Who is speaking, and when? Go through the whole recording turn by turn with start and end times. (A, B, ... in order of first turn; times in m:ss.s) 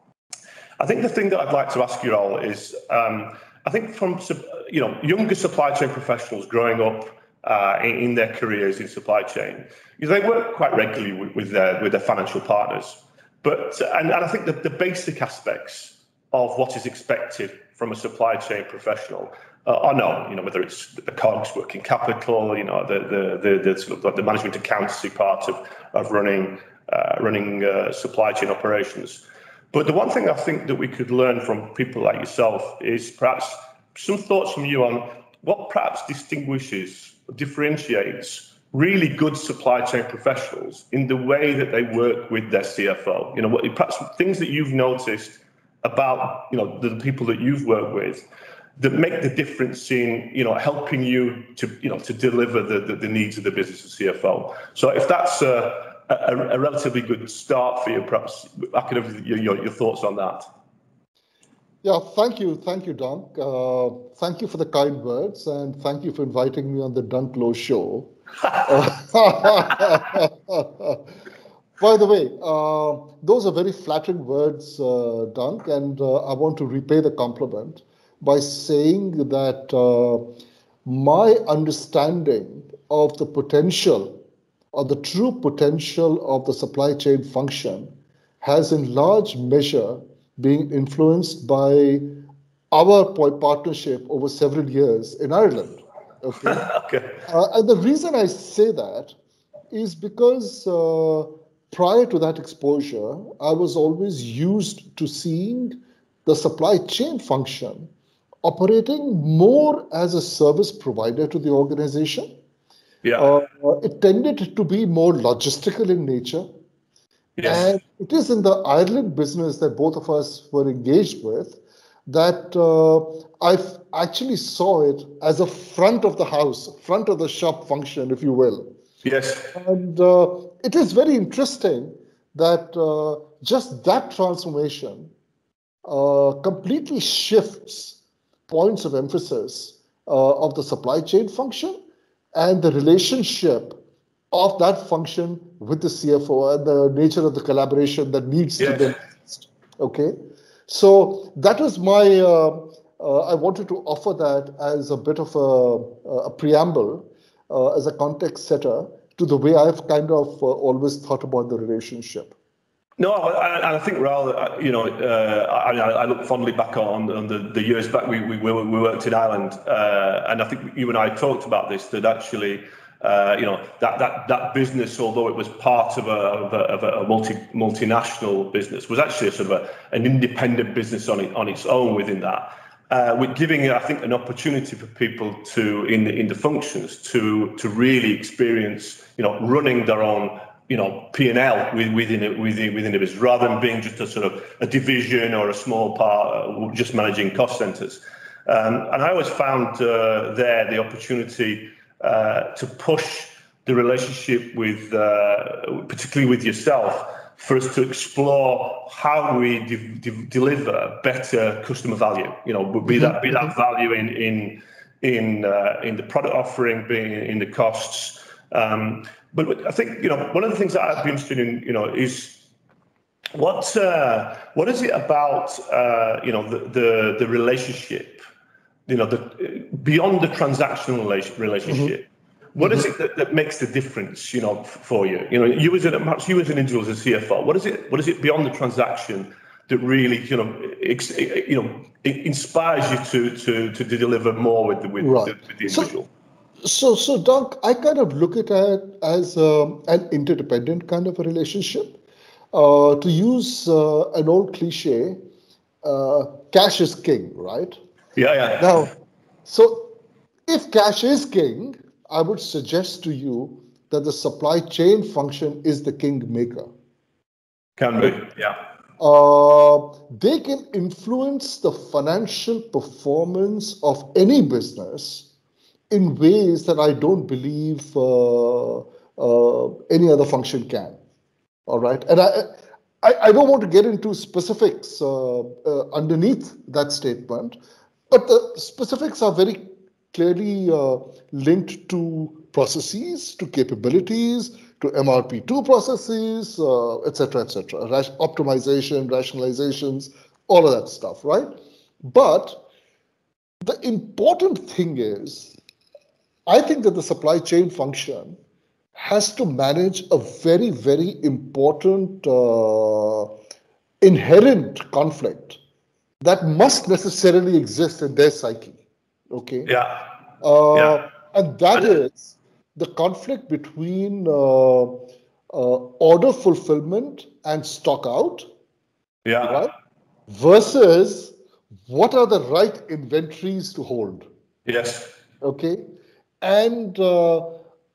0:00.8-0:48.2 A
0:48.8-1:00.4 A
1:01.8-1:11.0 B
1:11.8-1:20.3 B
1:20.8-1:24.2 B
1:24.7-1:27.9 B
1:28.4-1:32.2 B
1:32.7-1:36.6 B
1:36.4-1:37.2 A
1:37.3-1:39.2 B
1:39.7-1:47.9 B
1:48.4-1:52.3 B
1:53.2-1:56.4 B
1:57.4-1:57.7 A
1:57.4-2:08.7 B
2:09.0-2:09.5 A
2:09.5-2:15.1 B
2:15.9-2:21.7 B
2:22.3-2:23.8 B
2:24.3-2:30.1 B
2:28.6-2:29.0 A
2:30.7-2:42.3 B
2:43.0-3:42.5 A
3:32.9-3:33.3 B
3:43.4-3:48.2 A
3:48.9-4:06.1 A
3:52.6-3:52.9 B
4:05.0-4:05.9 B
4:06.6-4:12.0 B
4:12.5-4:15.2 B
4:15.8-4:17.8 B
4:18.2-4:18.8 A
4:18.6-4:18.9 B
4:19.4-4:19.9 B
4:20.5-4:26.7 B
4:27.8-4:28.6 A
4:29.0-4:35.3 B
4:35.9-4:41.0 B
4:41.7-4:47.6 B
4:48.1-5:01.5 B
5:02.0-5:02.6 B
5:03.6-5:05.6 B
5:06.5-5:08.4 B
5:08.9-5:13.3 B
5:14.0-5:15.6 B
5:16.2-5:19.7 B
5:19.6-5:20.1 A
5:20.4-5:28.5 B
5:20.7-5:21.0 A
5:29.2-5:29.6 A
5:29.4-5:29.7 B
5:30.3-5:31.4 B
5:31.9-5:34.2 B
5:34.6-5:35.1 A
5:35.4-5:35.8 B
5:36.4-5:37.6 B